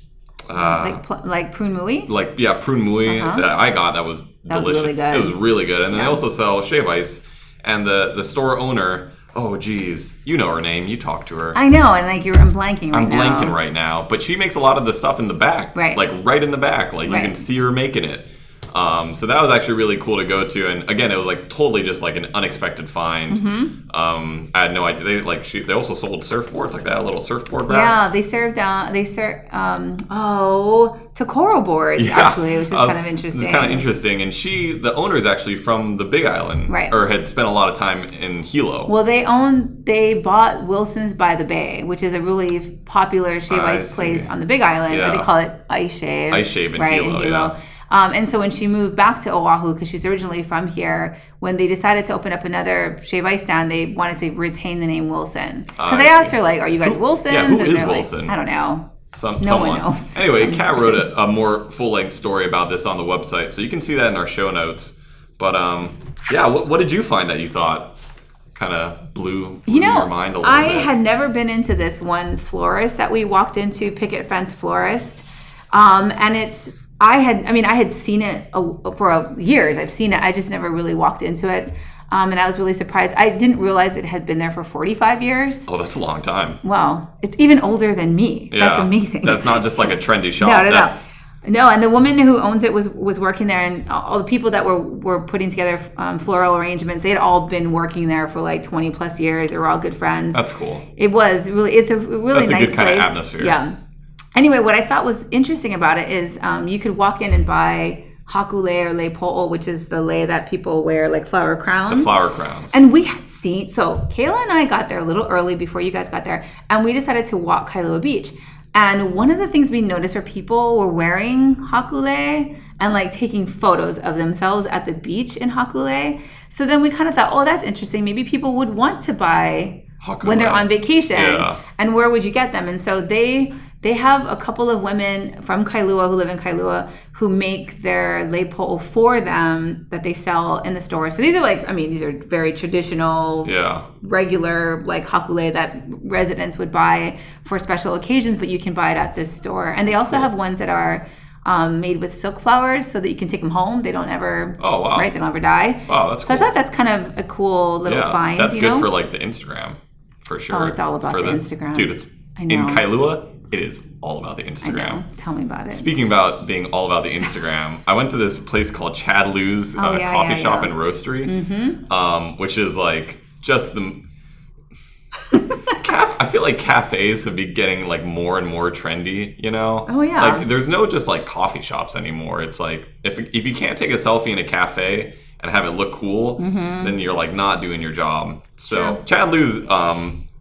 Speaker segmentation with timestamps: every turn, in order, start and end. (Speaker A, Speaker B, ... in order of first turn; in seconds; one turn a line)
Speaker A: 0.5-1.0
Speaker B: 0.6-2.1
Speaker A: 2.1-11.6
Speaker B: 3.1-3.5
Speaker B: 4.5-6.2
Speaker B: 11.5-13.6
Speaker A: 12.9-27.9
Speaker B: 15.8-16.0
Speaker B: 17.1-17.4
Speaker B: 23.3-23.8
Speaker B: 27.7-33.9
Speaker A: 32.0-38.9
Speaker B: 36.7-37.0
Speaker B: 38.9-61.1
Speaker A: 43.5-44.3
Speaker A: 44.9-45.3
Speaker A: 46.3-47.5
Speaker A: 55.8-58.4
Speaker A: 59.1-68.0
Speaker A: 68.5-70.9
Speaker B: 69.7-85.7
Speaker A: 85.7-86.6
Speaker B: 86.6-100.4
Speaker A: 88.5-91.1
Speaker A: 100.3-100.8
Speaker B: 101.0-103.8
Speaker A: 102.3-103.6
Speaker B: 104.3-112.2
Speaker A: 111.9-112.8
Speaker B: 112.7-158.9
Speaker A: 130.0-131.6
Speaker A: 143.4-143.9
Speaker A: 149.9-150.3
Speaker A: 154.6-155.1
Speaker A: 155.9-156.5
Speaker A: 157.9-165.0
Speaker B: 160.5-162.8
Speaker B: 164.6-165.9
Speaker A: 165.7-171.3
Speaker B: 169.8-171.8
Speaker A: 171.9-174.0
Speaker B: 175.3-175.8
Speaker A: 175.7-190.2
Speaker B: 179.9-180.5
Speaker B: 186.4-186.9
Speaker B: 188.7-189.0